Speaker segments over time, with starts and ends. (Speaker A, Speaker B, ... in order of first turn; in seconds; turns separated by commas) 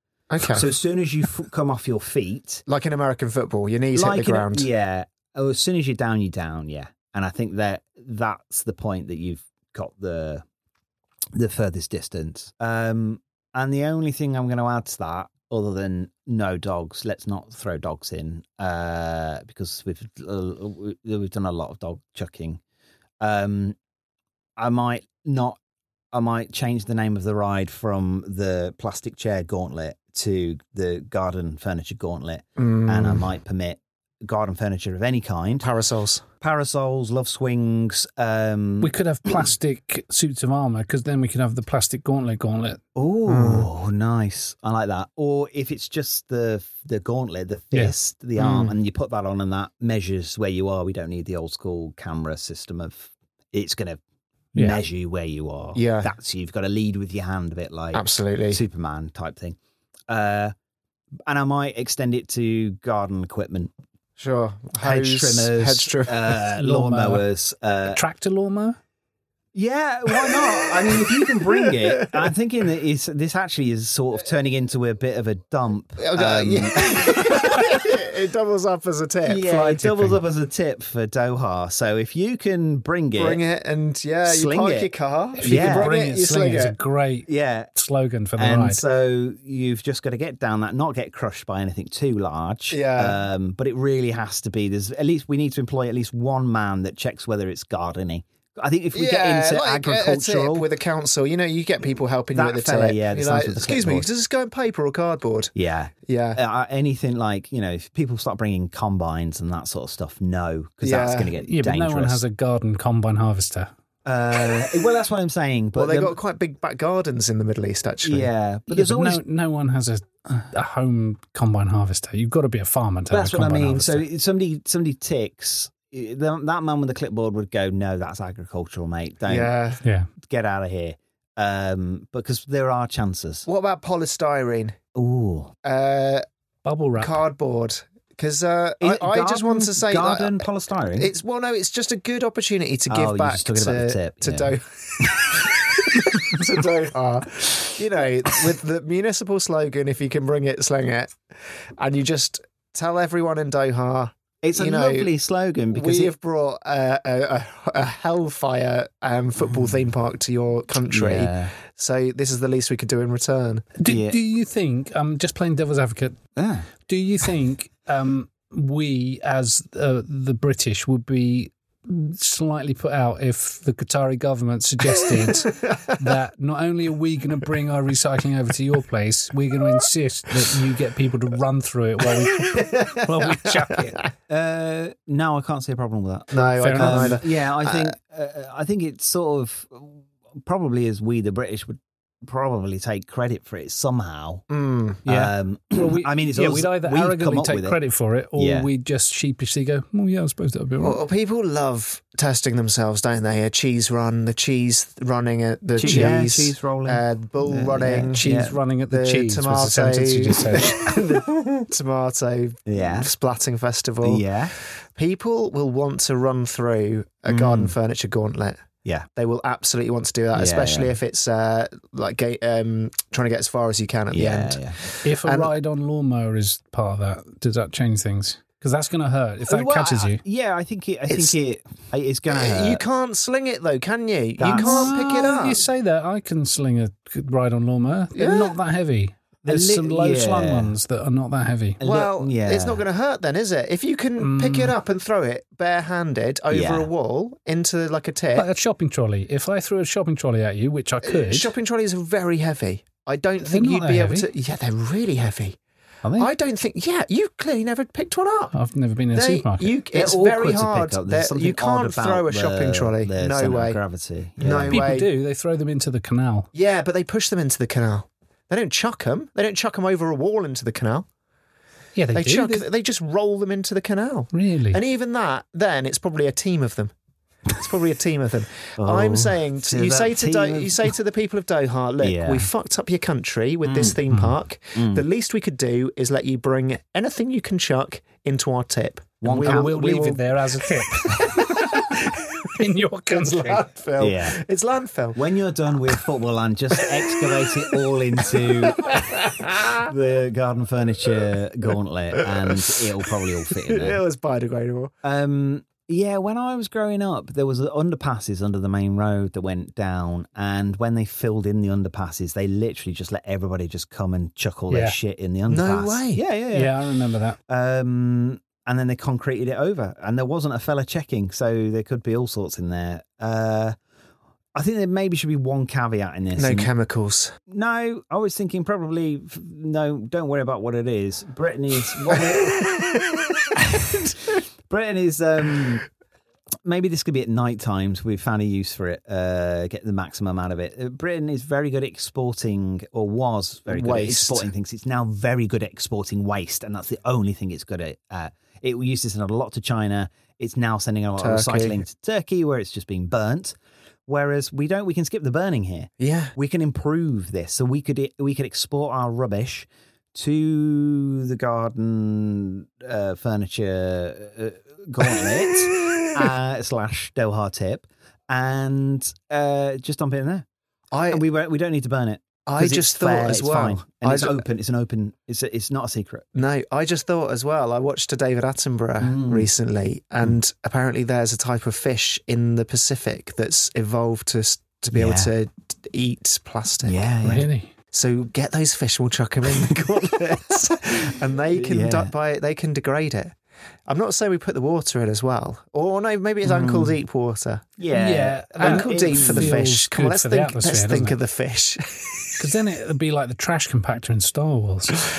Speaker A: 0.3-0.8, Speaker B: 0.4-2.6, Speaker A: 2.7-4.7, Speaker B: 3.9-10.4, Speaker B: 11.3-22.6, Speaker B: 23.2-23.8, Speaker B: 24.6-25.6, Speaker B: 26.1-35.7, Speaker A: 32.6-33.3, Speaker A: 35.6-36.2, Speaker B: 36.4-39.5, Speaker C: 38.8-42.8, Speaker B: 43.0-54.0, Speaker A: 43.3-43.7, Speaker A: 48.4-48.8, Speaker C: 54.5-54.8, Speaker B: 54.5-59.6, Speaker A: 55.8-56.1, Speaker A: 57.9-58.6, Speaker B: 60.1-60.5, Speaker B: 61.3-63.7, Speaker A: 64.2-66.2, Speaker B: 64.8-68.0, Speaker C: 66.5-67.2, Speaker C: 67.9-68.8, Speaker B: 69.5-77.6, Speaker A: 71.5-72.0, Speaker A: 76.0-80.1, Speaker B: 79.2-83.4, Speaker A: 83.1-86.8, Speaker B: 84.2-85.9, Speaker C: 85.4-88.8, Speaker B: 87.3-87.7, Speaker B: 88.4-100.7, Speaker A: 92.7-93.2, Speaker A: 98.9-105.5, Speaker B: 102.3-104.1, Speaker B: 105.5-112.2, Speaker A: 106.1-106.4, Speaker A: 110.8-111.3, Speaker C: 111.4-113.7, Speaker B: 114.0-116.2, Speaker A: 115.8-118.3, Speaker B: 118.0-119.2, Speaker C: 118.7-124.0, Speaker B: 123.1-129.5, Speaker A: 129.3-129.8, Speaker C: 129.8-130.1, Speaker B: 130.2-133.5, Speaker A: 133.5-134.8, Speaker B: 134.9-135.5, Speaker A: 135.6-136.2, Speaker C: 136.7-137.2, Speaker A: 137.0-145.4, Speaker B: 138.8-141.1, Speaker B: 142.9-145.1, Speaker A: 146.2-151.2, Speaker A: 151.8-155.1, Speaker B: 154.4-156.2, Speaker A: 155.7-163.7, Speaker B: 160.9-161.5, Speaker C: 163.8-166.2, Speaker B: 163.8-164.2, Speaker B: 166.4-166.7, Speaker C: 166.8-184.0, Speaker A: 182.2-183.9, Speaker B: 184.3-194.4, Speaker A: 186.3-187.9, Speaker C: 186.6-187.2, Speaker A: 194.5-195.0, Speaker B: 195.0-197.8, Speaker C: 195.1-201.0, Speaker B: 198.3-198.7, Speaker A: 200.8-208.2, Speaker B: 205.8-208.6, Speaker C: 205.8-206.1, Speaker C: 208.2-210.9, Speaker A: 208.9-214.3, Speaker B: 212.7-213.1, Speaker B: 214.0-214.5, Speaker A: 214.9-218.6, Speaker B: 217.3-217.7, Speaker A: 219.2-225.5, Speaker B: 220.3-220.9, Speaker B: 224.1-224.8, Speaker C: 225.0-230.2, Speaker B: 229.5-232.8, Speaker A: 231.1-231.4, Speaker A: 232.3-235.7, Speaker B: 234.4-234.9, Speaker C: 234.5-241.8, Speaker A: 238.1-238.6, Speaker B: 239.5-240.8, Speaker B: 241.8-242.8, Speaker A: 241.8-248.5, Speaker C: 244.2-244.8, Speaker B: 246.5-246.9, Speaker C: 248.3-251.5, Speaker A: 251.0-255.6, Speaker C: 253.4-254.3, Speaker B: 256.0-256.3, Speaker A: 256.2-258.5, Speaker C: 258.5-259.7, Speaker A: 259.1-263.8, Speaker B: 259.9-264.9, Speaker A: 264.4-265.1, Speaker C: 264.7-266.5, Speaker A: 266.5-271.1, Speaker C: 271.9-272.7, Speaker A: 272.1-276.9, Speaker C: 274.3-274.8, Speaker A: 277.6-290.3, Speaker B: 278.8-280.9, Speaker B: 282.0-282.5, Speaker B: 283.6-284.0, Speaker B: 284.7-285.1, Speaker B: 289.2-289.9, Speaker C: 289.3-291.9, Speaker C: 292.5-293.7, Speaker A: 293.1-295.2, Speaker B: 294.0-294.4, Speaker B: 295.1-299.0, Speaker A: 298.9-299.8, Speaker B: 299.8-304.0, Speaker A: 302.3-302.8, Speaker A: 303.5-304.9, Speaker B: 305.0-316.8, Speaker C: 314.7-315.0, Speaker A: 315.5-316.2, Speaker C: 316.5-317.4, Speaker B: 317.5-323.8, Speaker B: 324.6-326.7, Speaker A: 326.4-327.3, Speaker B: 327.5-332.7, Speaker B: 333.5-335.9, Speaker B: 336.6-353.6, Speaker A: 343.7-344.5, Speaker A: 351.2-351.8, Speaker B: 354.1-370.5, Speaker A: 356.0-356.3, Speaker A: 370.9-371.2, Speaker B: 371.1-376.3, Speaker A: 372.5-374.4, Speaker A: 376.4-387.1, Speaker B: 379.0-379.5, Speaker B: 384.9-385.3, Speaker B: 386.9-387.5, Speaker C: 387.2-387.7, Speaker A: 387.9-393.4, Speaker B: 391.5-392.1, Speaker A: 393.9-397.7, Speaker B: 396.4-397.0, Speaker B: 397.8-399.6, Speaker C: 397.9-401.2, Speaker A: 398.6-402.5, Speaker C: 402.4-405.1